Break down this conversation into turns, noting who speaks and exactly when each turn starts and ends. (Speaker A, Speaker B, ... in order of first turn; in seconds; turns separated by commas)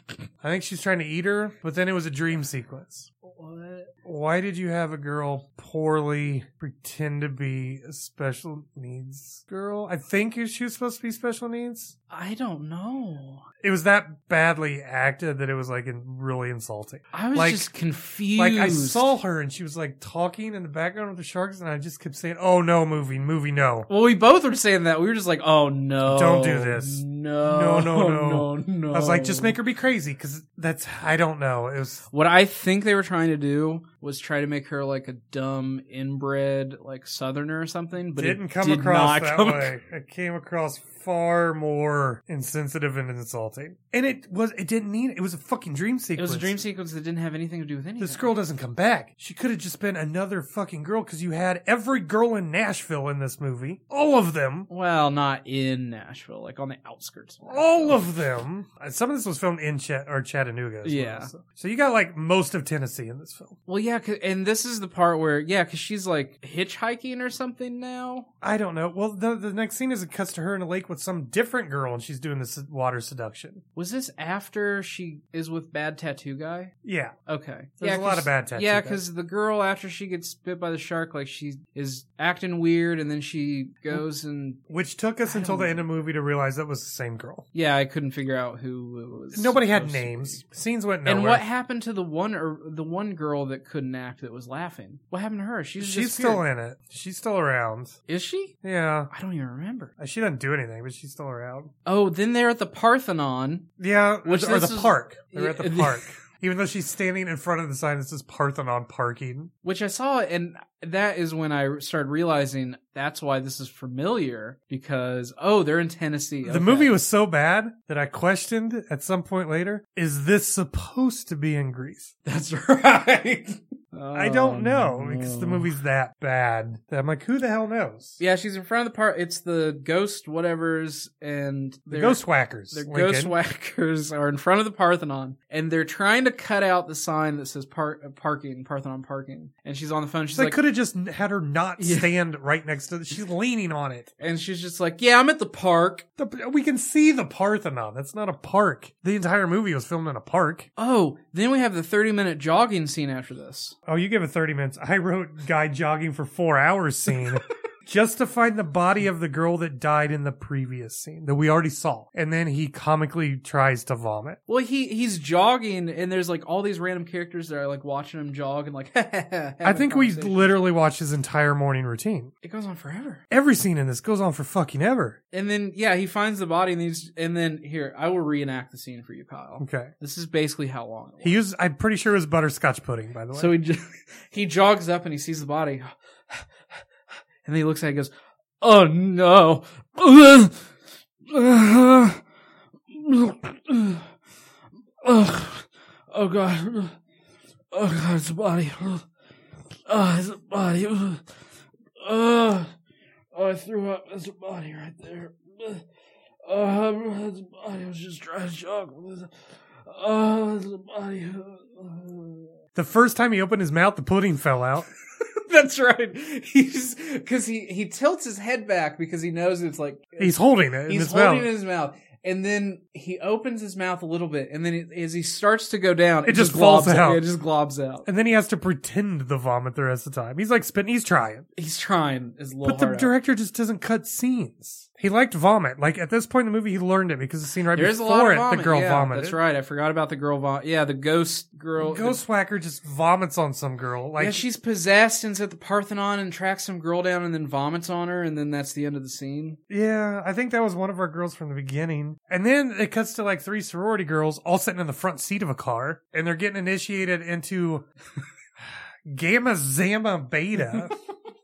Speaker A: 0.4-3.1, Speaker B: 3.2-3.9, Speaker A: 4.0-11.9, Speaker B: 12.1-13.4, Speaker A: 13.6-17.7, Speaker B: 17.1-19.1, Speaker A: 18.4-23.9, Speaker B: 23.9-29.6, Speaker A: 26.0-32.0, Speaker B: 32.1-39.7, Speaker A: 38.2-46.6, Speaker B: 46.2-48.3, Speaker A: 48.0-54.7, Speaker B: 54.7-58.2, Speaker A: 57.5-63.5, Speaker B: 60.8-61.3, Speaker B: 63.7-68.3, Speaker A: 68.4-73.6, Speaker B: 73.8-76.7, Speaker A: 76.8-77.1, Speaker B: 77.3-84.6, Speaker A: 77.8-79.0, Speaker A: 84.7-87.4, Speaker B: 85.2-85.8, Speaker B: 87.5-90.4, Speaker A: 89.3-91.4, Speaker B: 91.0-96.4, Speaker A: 95.8-98.0, Speaker B: 98.1-98.5, Speaker A: 98.6-99.1, Speaker B: 99.1-99.9, Speaker A: 100.0-101.7, Speaker B: 101.8-103.7, Speaker A: 103.8-109.5, Speaker B: 104.2-106.1, Speaker B: 109.6-116.9, Speaker A: 116.4-122.1, Speaker B: 122.2-125.8, Speaker A: 124.1-128.2, Speaker B: 128.2-140.6, Speaker A: 131.9-133.3, Speaker A: 140.3-144.1, Speaker B: 141.8-142.1, Speaker B: 144.2-146.0, Speaker A: 146.2-150.7, Speaker B: 150.8-153.7, Speaker A: 153.8-164.4, Speaker B: 164.5-170.6, Speaker A: 169.6-172.3, Speaker B: 172.4-173.2, Speaker A: 173.3-175.2, Speaker B: 175.3-181.4, Speaker A: 179.6-179.9, Speaker A: 181.2-183.5, Speaker B: 183.3-186.5, Speaker B: 187.4-190.7, Speaker B: 191.3-192.2, Speaker B: 192.9-194.1, Speaker B: 195.0-197.0, Speaker B: 197.7-199.1, Speaker B: 199.9-201.2, Speaker B: 202.0-202.7, Speaker B: 203.3-205.8, Speaker B: 206.4-212.5, Speaker A: 212.7-214.9, Speaker B: 215.2-228.1, Speaker A: 220.2-221.5, Speaker A: 226.2-227.2, Speaker A: 228.1-231.4, Speaker B: 231.6-233.1, Speaker A: 232.6-239.4, Speaker B: 237.7-242.2, Speaker A: 241.8-244.4, Speaker B: 244.2-249.6, Speaker A: 249.7-257.9, Speaker A: 259.1-260.9, Speaker B: 260.5-260.9